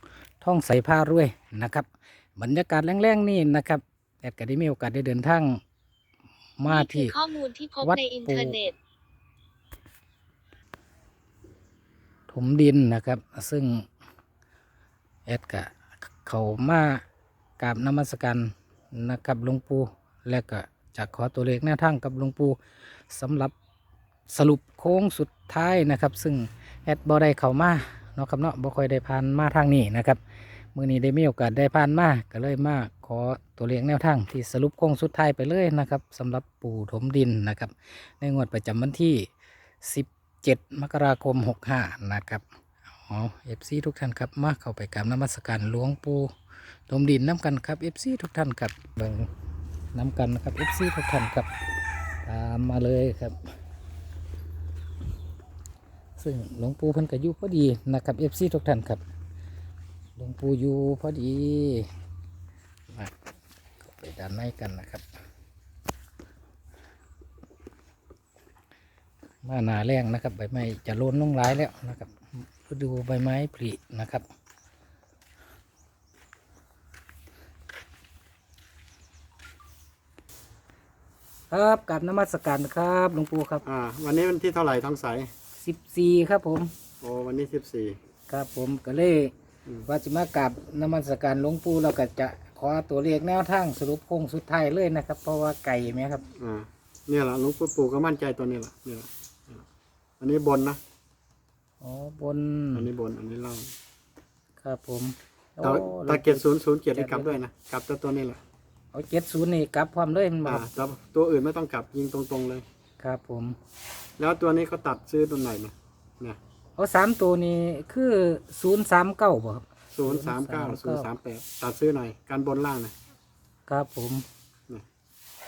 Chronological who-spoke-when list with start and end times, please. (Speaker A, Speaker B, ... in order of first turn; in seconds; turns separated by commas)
Speaker A: 0.4-5.6, Speaker A: 6.6-7.2, Speaker B: 6.7-8.8, Speaker A: 7.8-8.6, Speaker A: 12.3-13.9, Speaker A: 15.3-17.0, Speaker A: 17.6-22.6, Speaker A: 23.1-23.5, Speaker A: 24.3-30.2, Speaker A: 30.8-39.3, Speaker A: 39.8-42.4, Speaker A: 43.1-46.3, Speaker A: 46.9-49.3, Speaker A: 49.9-51.5, Speaker A: 52.2-53.4, Speaker A: 56.2-59.0, Speaker A: 60.2-61.9, Speaker A: 62.9-63.1, Speaker A: 63.8-65.0, Speaker A: 69.4-74.2, Speaker A: 81.5-83.6, Speaker C: 83.6-85.3, Speaker A: 85.6-86.7, Speaker C: 87.0-88.0, Speaker A: 88.3-89.3, Speaker A: 89.9-96.3, Speaker C: 96.4-99.7, Speaker C: 100.2-100.8, Speaker A: 101.8-102.9, Speaker C: 102.7-103.7, Speaker A: 104.6-107.3, Speaker C: 105.6-108.4, Speaker A: 108.9-110.7, Speaker C: 110.5-112.7, Speaker A: 113.0-113.6, Speaker C: 114.2-116.4, Speaker A: 116.8-121.1, Speaker C: 119.9-122.9, Speaker A: 123.7-124.2